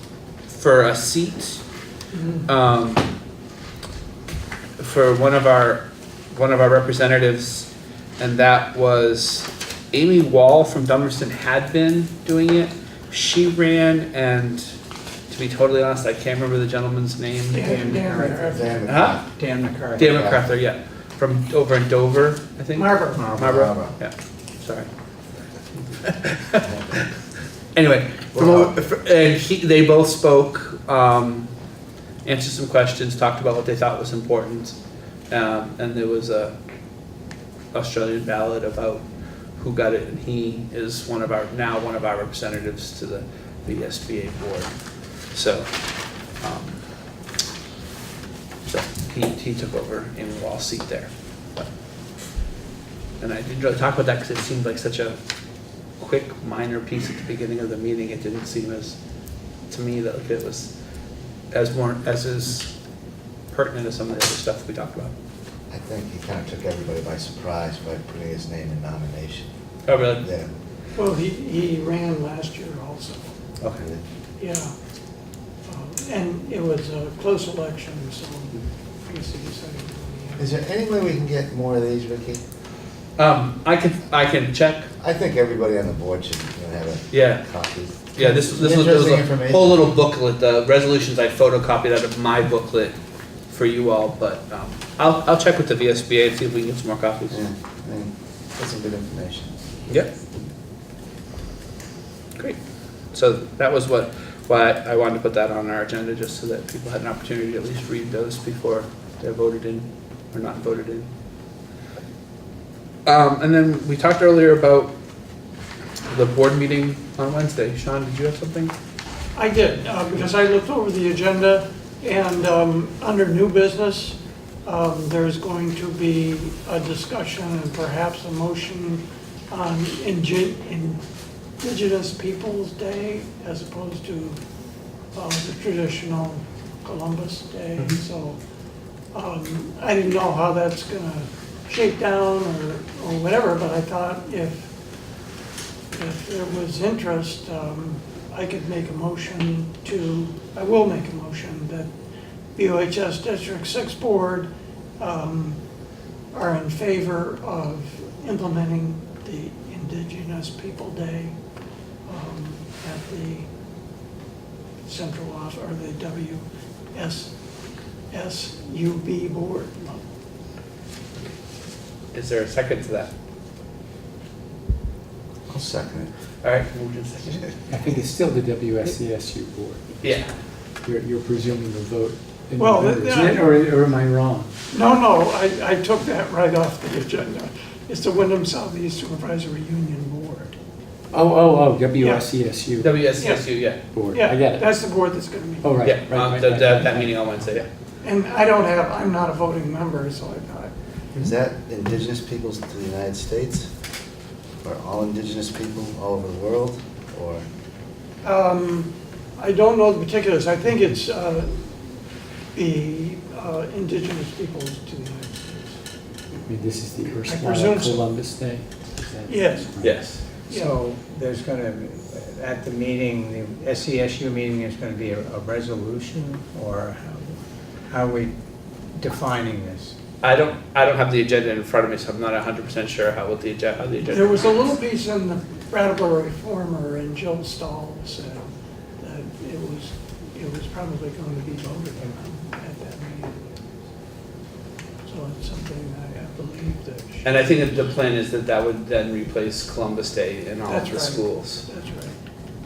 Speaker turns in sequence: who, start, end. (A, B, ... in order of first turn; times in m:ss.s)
0:00.5-0:01.6 A
0:02.1-0:02.5 B
0:02.5-0:03.0 A
0:04.8-0:05.8 A
0:06.3-0:14.7 A
0:15.3-0:17.7 A
0:17.5-0:18.6 B
0:17.7-0:18.7 C
0:18.4-0:19.3 D
0:18.9-0:19.2 A
0:19.4-0:20.0 C
0:20.0-0:20.4 D
0:20.0-0:24.9 A
0:22.8-0:23.3 B
0:23.4-0:24.0 D
0:25.8-0:27.1 A
0:26.7-0:26.9 D
0:27.8-0:31.5 A
0:28.4-0:28.7 D
0:32.2-0:34.8 A
0:35.3-0:36.5 A
0:37.7-0:39.0 A
0:39.6-0:44.7 A
0:45.3-0:45.7 A
0:46.4-0:46.8 A
0:48.6-0:51.7 A
0:53.2-0:55.2 A
0:56.0-0:59.0 A
0:59.7-1:00.7 A
1:01.5-1:02.7 A
1:03.5-1:05.1 A
1:05.7-1:09.5 D
1:09.9-1:10.2 A
1:10.2-1:10.5 D
1:11.0-1:13.3 B
1:13.6-1:14.0 D
1:14.4-1:14.7 B
1:15.7-1:20.5 B
1:20.4-1:22.4 D
1:23.2-1:24.9 A
1:25.0-1:29.9 D
1:27.1-1:27.4 A
1:28.1-1:33.0 A
1:33.5-1:37.4 A
1:37.3-1:39.6 D
1:43.1-1:51.1 A
1:53.1-1:54.9 A
1:56.1-1:58.7 A
1:59.3-2:11.0 B
2:11.6-2:14.4 B
2:15.1-2:18.4 B
2:19.1-2:24.7 B
2:25.9-2:31.9 B
2:32.6-2:35.6 B
2:36.3-2:41.3 B
2:42.1-2:43.5 B
2:44.9-2:47.4 B
2:48.1-2:50.1 B
2:52.1-2:53.1 A
2:55.5-2:56.1 D
2:56.4-2:57.5 A
2:57.7-2:59.9 E
3:00.0-3:00.3 A
3:00.8-3:04.5 E
3:02.6-3:03.6 B
3:04.7-3:10.5 B
3:11.1-3:13.2 E
3:12.0-3:12.2 B
3:12.8-3:13.8 A
3:13.2-3:13.4 B
3:13.9-3:14.7 E
3:14.1-3:15.7 B
3:15.6-3:17.2 E
3:15.8-3:17.7 A
3:18.0-3:20.7 B
3:21.2-3:23.7 D
3:24.6-3:27.4 D
3:28.2-3:32.0 B
3:32.5-3:35.8 B
3:36.4-3:40.0 E
3:37.2-3:38.0 B
3:39.2-3:40.8 B
3:39.8-3:40.2 A
3:40.5-3:47.4 C
3:47.9-3:48.3 C
3:48.9-3:49.9 C
3:50.2-3:54.7 A
3:54.1-3:58.5 B
3:59.0-4:03.5 B
4:05.1-4:07.6 B
4:07.2-4:11.7 A
4:10.7-4:12.2 B